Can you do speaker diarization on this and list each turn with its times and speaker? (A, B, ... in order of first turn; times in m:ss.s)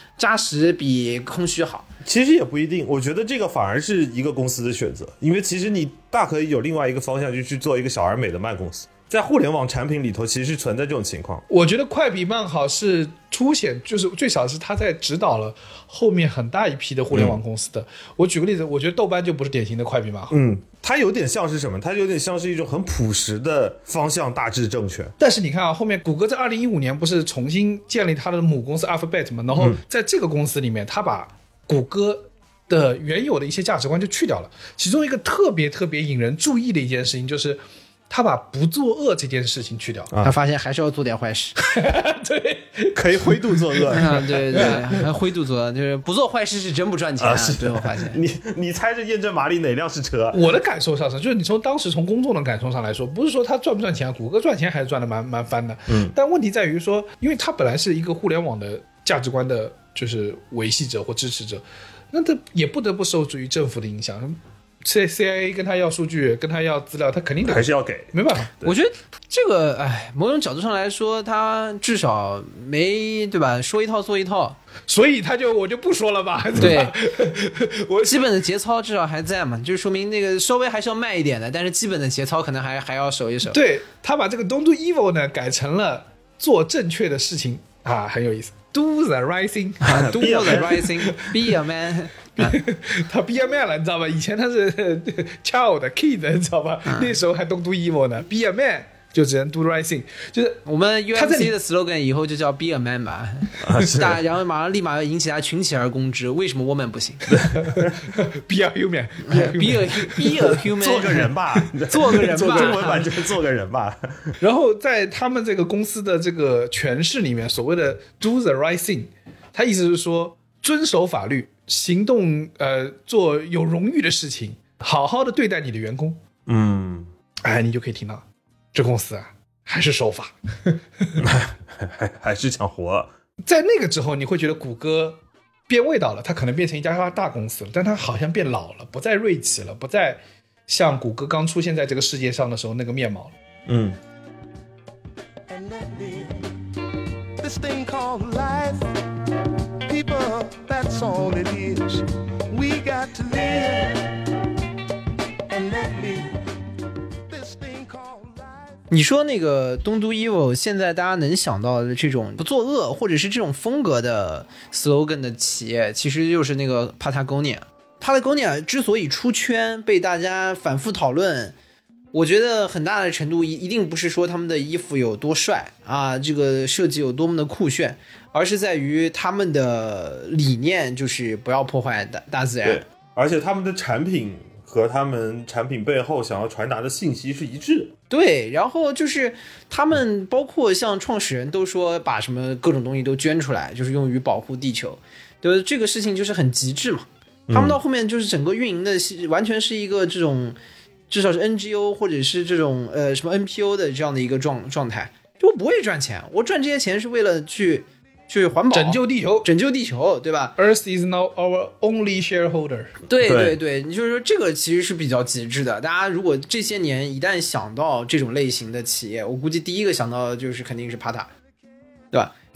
0:00.2-0:01.9 A
0:02.0-0:11.4 B
0:11.5-0:20.4 C
0:17.1-0:17.4 B
0:20.3-0:25.1 B
0:25.2-0:40.1 C
0:40.2-0:41.6 A
0:41.6-0:44.8 C
0:42.9-0:44.8 B
0:43.9-0:48.2 A
0:47.2-0:50.4 B
0:50.3-1:08.5 C
0:55.9-0:56.1 B
1:07.4-1:08.7 B
1:08.6-1:14.6 A
1:14.9-1:18.2 C
1:16.6-1:17.0 A
1:18.0-1:23.6 A
1:23.5-1:31.4 C
1:29.8-1:32.6 A
1:29.9-1:30.8 B
1:32.4-1:40.6 C
1:36.9-1:37.1 A
1:40.7-1:47.3 A
1:41.1-1:41.5 C
1:43.6-1:44.2 B
1:47.3-1:47.9 B
1:47.6-1:50.6 C
1:49.3-1:53.1 A
1:50.7-1:54.4 B
1:52.1-1:53.0 C
1:54.4-2:06.2 C
2:06.5-2:07.1 B
2:07.4-2:11.2 C
2:11.2-2:13.1 B
2:13.4-2:23.4 C
2:23.7-2:24.0 B
2:25.5-2:26.5 D
2:27.4-2:28.9 D
2:29.9-2:34.4 D
2:35.5-2:36.4 D
2:37.3-2:38.8 D
2:38.9-2:51.6 A
2:52.1-3:02.8 A
3:02.6-3:07.9 B
3:08.1-3:20.6 A
3:17.5-3:17.8 B
3:21.1-3:30.6 A
3:28.7-3:29.5 C
3:30.6-3:32.9 C
3:33.1-3:41.3 A
3:33.2-3:33.6 B